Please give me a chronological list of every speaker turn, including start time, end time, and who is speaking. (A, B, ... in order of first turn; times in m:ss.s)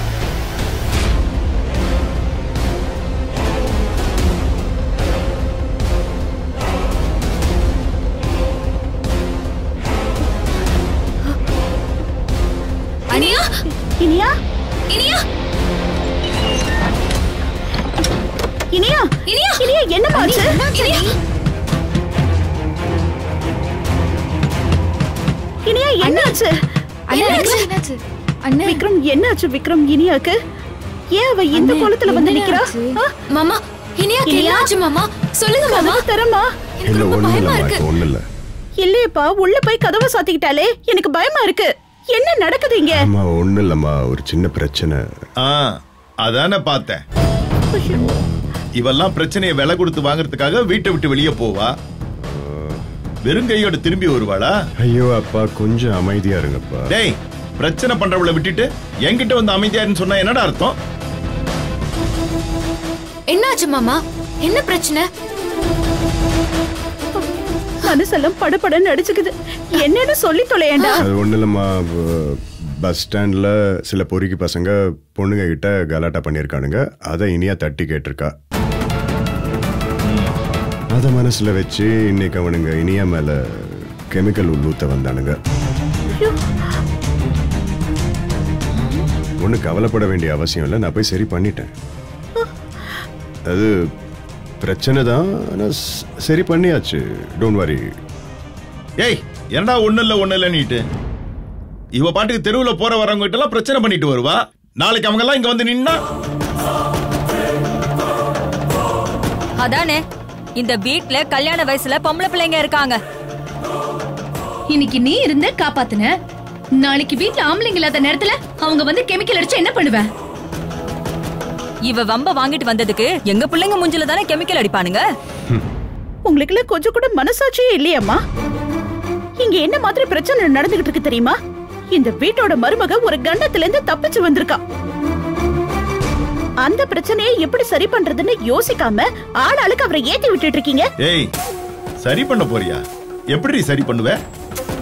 0:13.1-0:13.6 A
0:13.1-0:13.4 B
0:14.0-0:14.3 B
0:14.9-0:15.2 A
0:18.7-0:21.1 B
0:19.3-0:21.1 A
0:25.6-0:27.7 B
0:26.0-0:26.3 A
0:27.1-0:28.8 A
0:28.6-0:30.4 B
0:31.1-0:33.1 B
0:31.6-0:36.0 A
0:34.2-0:34.7 B
0:35.6-0:36.5 B
0:36.8-0:37.9 A
0:36.8-0:38.2 C
0:38.8-0:43.0 B
0:42.9-0:45.0 C
0:45.4-0:45.7 D
0:46.2-0:47.0 D
0:47.7-0:48.2 B
0:48.8-0:51.7 D
0:52.2-0:52.8 C
0:53.2-0:54.5 D
0:54.8-0:56.9 C
0:56.9-1:00.8 D
1:03.3-1:05.1 A
1:07.8-1:11.0 B
1:11.0-1:18.3 C
1:20.0-1:20.4 D
1:20.9-1:25.4 C
1:29.4-1:31.7 C
1:34.6-1:37.8 C
1:39.0-1:40.8 D
1:42.0-1:46.0 D
1:49.6-1:50.0 E
1:50.6-1:53.0 E
1:54.7-1:56.1 F
1:56.8-2:00.1 F
2:01.9-2:05.0 E
2:06.2-2:08.2 B
2:09.4-2:11.3 B
2:11.9-2:14.6 B
2:16.6-2:20.9 B
2:21.0-2:21.3 D
2:22.0-2:22.8 D
2:23.3-2:24.2 D